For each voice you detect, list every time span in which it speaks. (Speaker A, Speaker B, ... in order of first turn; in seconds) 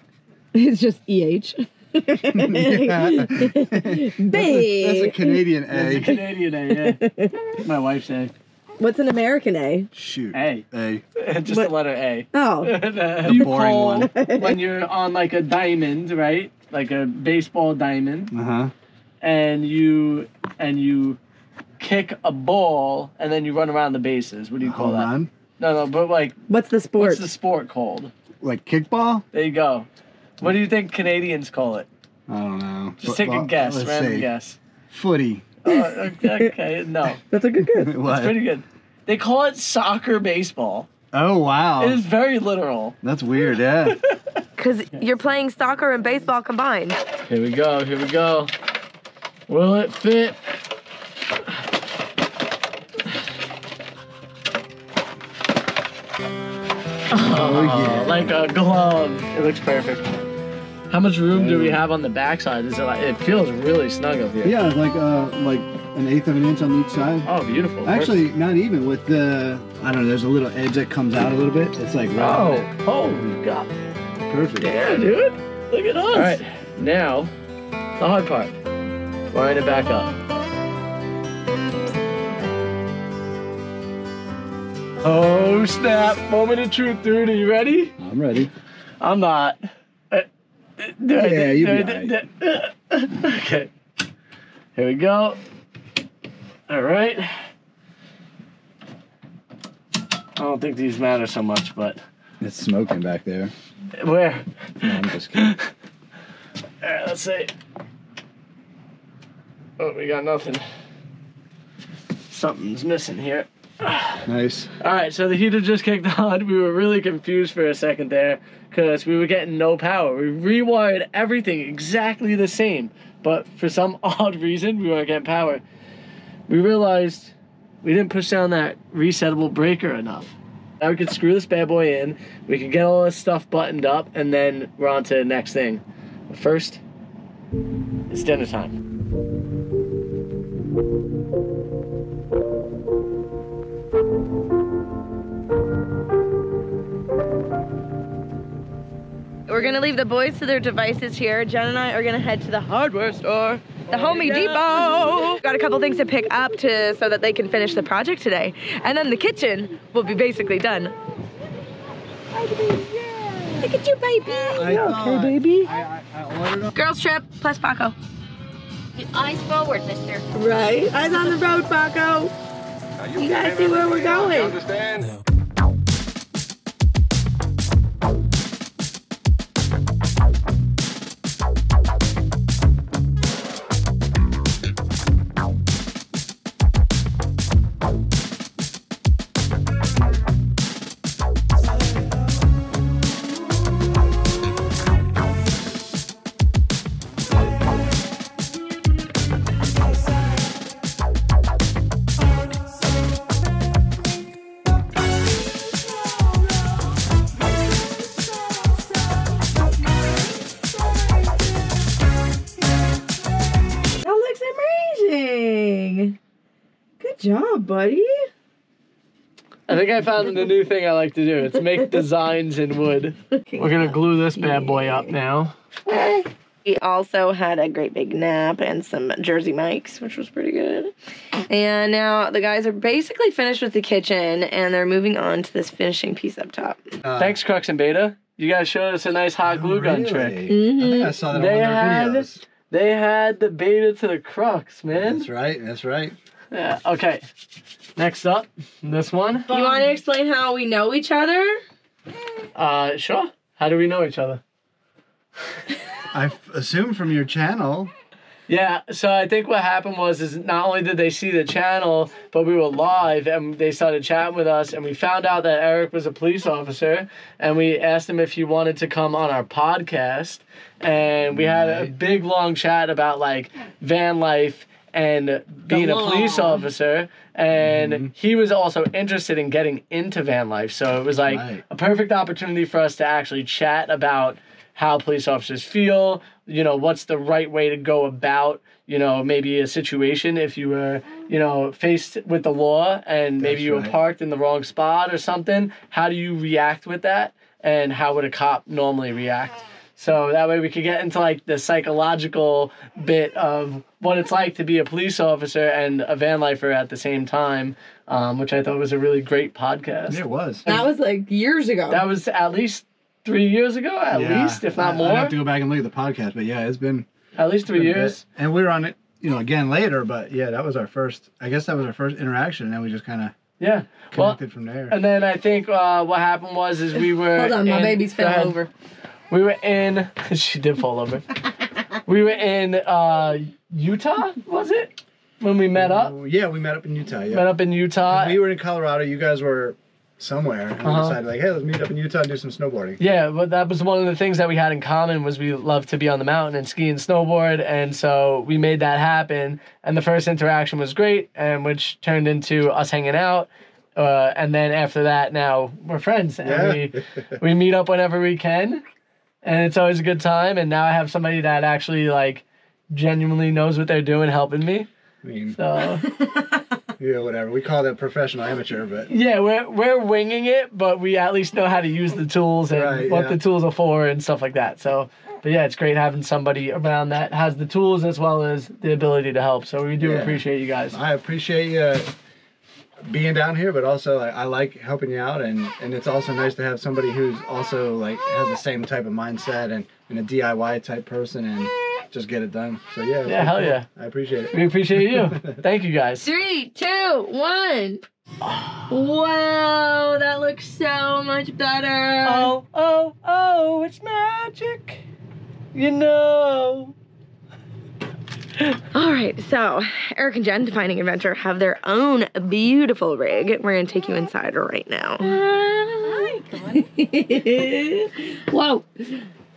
Speaker A: 0.5-5.4, 6.7-7.6, 8.8-9.9, 12.3-12.7, 13.3-14.6, 26.5-27.2, 37.2-37.9, 44.6-47.0, 149.5-160.9, 163.6-164.9, 166.7-167.9, 170.3-172.3, 173.1-174.6, 214.0-216.2, 217.0-218.3, 223.4-225.1, 225.9-230.9, 231.5-236.8, 240.5-241.2, 249.5-251.6, 275.7-276.6, 310.7-312.0, 327.3-328.7, 396.2-398.0, 398.9-402.5, 408.9-419.2
Speaker B: 2.3-6.2, 9.9-11.0, 13.2-14.1, 18.3-18.7, 24.6-25.3, 28.4-29.2, 32.3-34.3, 34.9-35.5, 37.7-38.4, 41.1-42.0, 43.0-44.0, 57.2-58.4, 61.3-61.8, 64.4-67.3, 67.8-72.7, 74.3-74.7, 76.1-76.4, 88.0-88.5, 91.2-92.1, 102.4-103.5, 104.8-105.5, 114.2-114.7, 164.5-166.8, 237.0-237.4, 239.4-242.4, 244.9-246.2, 256.1-257.9, 271.3-271.9, 277.6-278.1, 281.2-281.6, 293.4-293.9, 310.1-310.6, 314.1-317.1, 317.7-323.3, 324.1-325.0, 335.7-337.5, 338.1-343.0, 356.4-357.4, 365.2-365.6, 367.0-369.1, 372.7-373.4, 380.0-382.1, 383.0-395.6
Speaker C: 5.7-7.0, 7.6-8.3, 10.3-18.3, 19.2-21.2, 21.8-26.4, 27.0-28.1, 29.3-29.9, 30.4-31.9, 33.0-34.6, 35.6-37.2, 37.9-40.9, 41.8-43.0, 43.8-44.2, 47.2-48.5, 49.5-50.4, 57.1-60.1, 60.9-64.6, 67.2-68.1, 72.2-73.7, 74.6-77.3, 78.0-78.5, 79.3-80.1, 85.0-87.9, 89.0-89.6, 90.8-93.7, 94.8-95.4, 96.7-97.4, 100.4-102.0, 104.0-105.7, 106.8-107.5, 109.8-110.6, 112.3-114.2, 114.8-125.6, 126.5-136.8, 138.1-138.8, 153.9-155.4, 162.6-163.5, 164.6-165.7, 219.7-225.5, 237.2-240.5, 241.3-245.3, 246.5-247.2, 247.9-249.8, 252.5-254.4, 258.5-310.8, 311.9-315.3, 317.4-318.2, 323.6-324.4, 324.9-328.6, 329.3-331.2, 332.0-336.1, 337.3-338.4, 340.8-341.2, 343.0-358.8, 359.4-364.9, 365.5-366.0, 369.1-381.0, 393.2-393.9, 394.5-396.3, 398.4-398.9, 402.2-405.0, 405.7-406.9
Speaker D: 168.9-170.2, 415.2-417.2